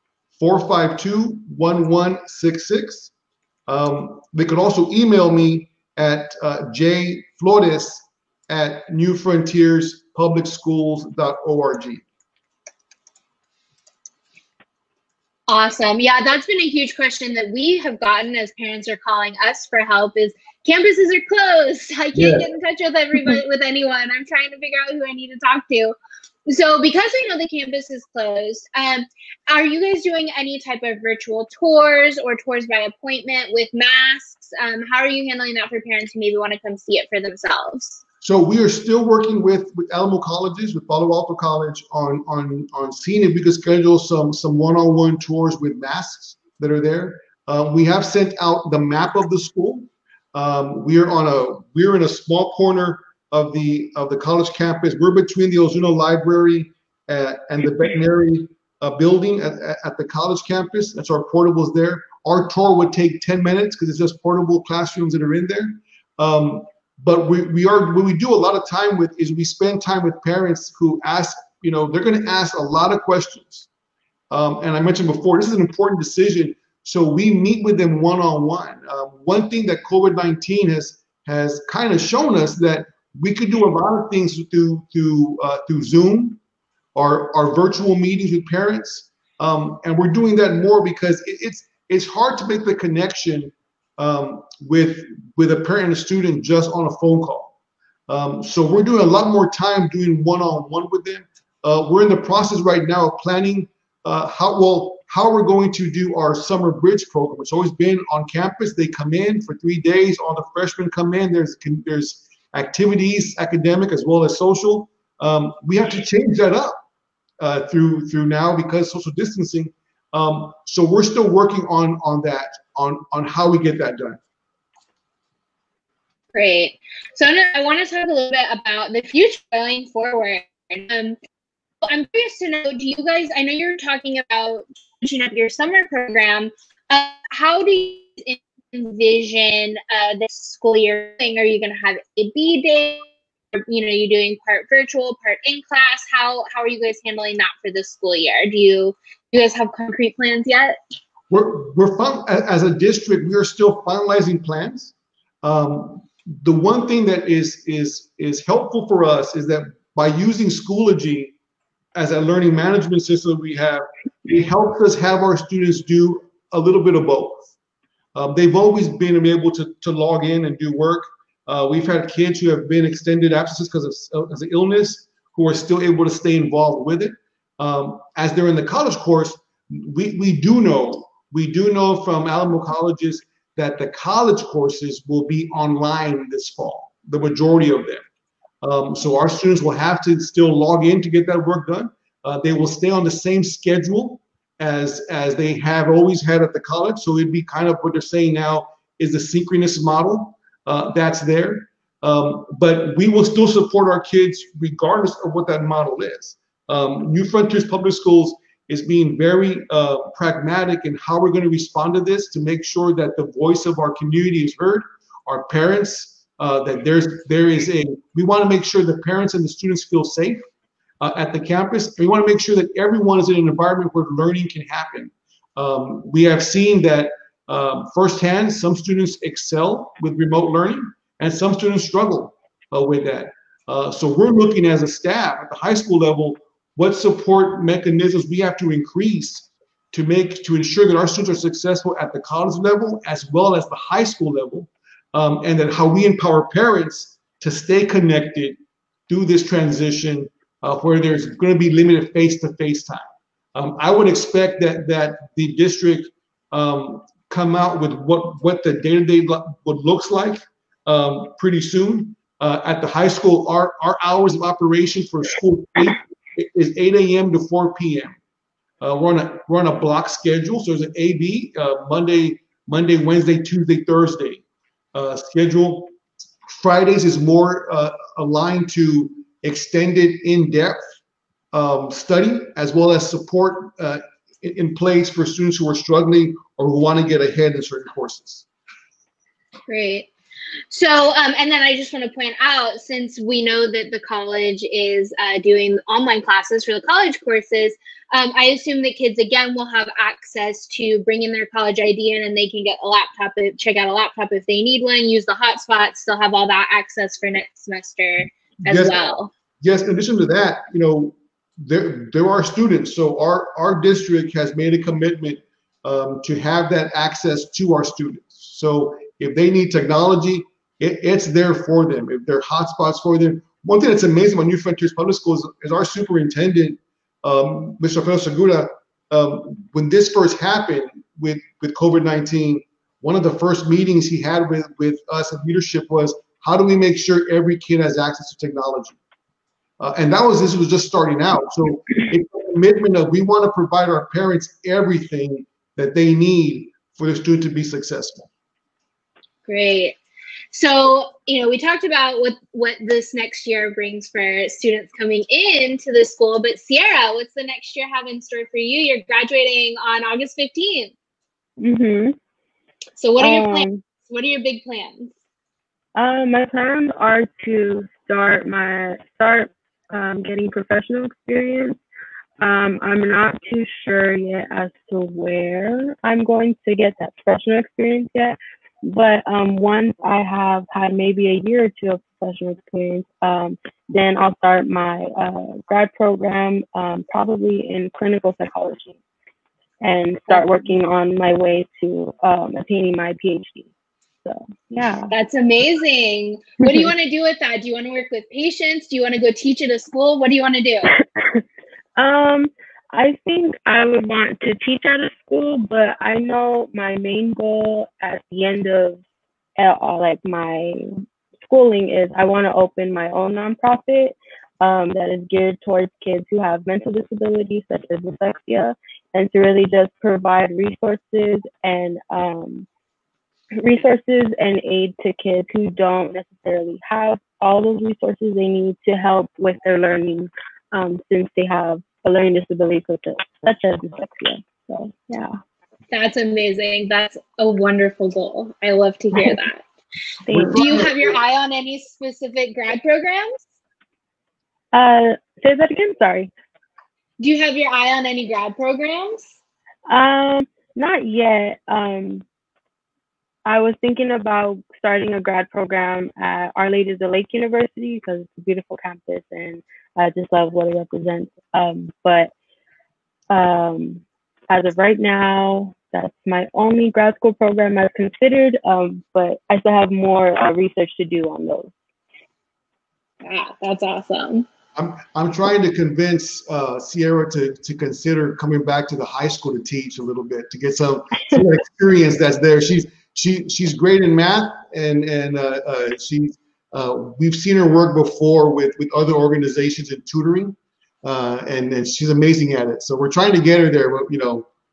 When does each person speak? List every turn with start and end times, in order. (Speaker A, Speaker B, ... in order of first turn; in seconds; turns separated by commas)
Speaker A: 0.4-3.1, Speaker A: 3.7-12.0, Speaker B: 15.5-38.0, Speaker A: 22.1-22.4, Speaker A: 38.2-73.7, Speaker A: 74.3-86.4, Speaker A: 86.9-97.5, Speaker A: 98.1-116.8, Speaker A: 117.4-124.2, Speaker B: 126.3-131.2, Speaker B: 131.8-150.8, Speaker A: 151.3-161.3, Speaker A: 161.9-167.4, Speaker A: 168.1-188.0, Speaker A: 188.6-220.4, Speaker A: 221.0-248.6, Speaker A: 249.1-268.2, Speaker A: 268.8-274.4, Speaker A: 274.9-275.9, Speaker A: 276.4-280.8, Speaker A: 281.5-288.4, Speaker B: 289.7-290.1, Speaker B: 290.7-309.3, Speaker A: 308.6-309.0, Speaker A: 309.6-339.0, Speaker A: 339.8-348.3, Speaker B: 349.4-350.0, Speaker B: 350.5-360.9, Speaker C: 361.6-362.1, Speaker B: 363.0-365.1, Speaker C: 363.2-363.8, Speaker C: 365.9-371.8, Speaker C: 372.4-389.0, Speaker C: 389.8-393.7, Speaker B: 390.3-390.7, Speaker C: 394.2-395.1, Speaker B: 395.1-400.9, Speaker C: 400.9-401.4, Speaker C: 402.0-409.0, Speaker C: 409.6-422.7, Speaker C: 423.6-435.4, Speaker B: 435.9-439.6, Speaker C: 440.2-440.6, Speaker A: 440.3-441.1, Speaker B: 440.5-443.4, Speaker C: 444.7-446.3, Speaker B: 447.2-449.3, Speaker C: 449.9-452.2, Speaker C: 453.4-462.3, Speaker C: 463.3-471.7, Speaker B: 473.2-474.4, Speaker A: 474.8-494.5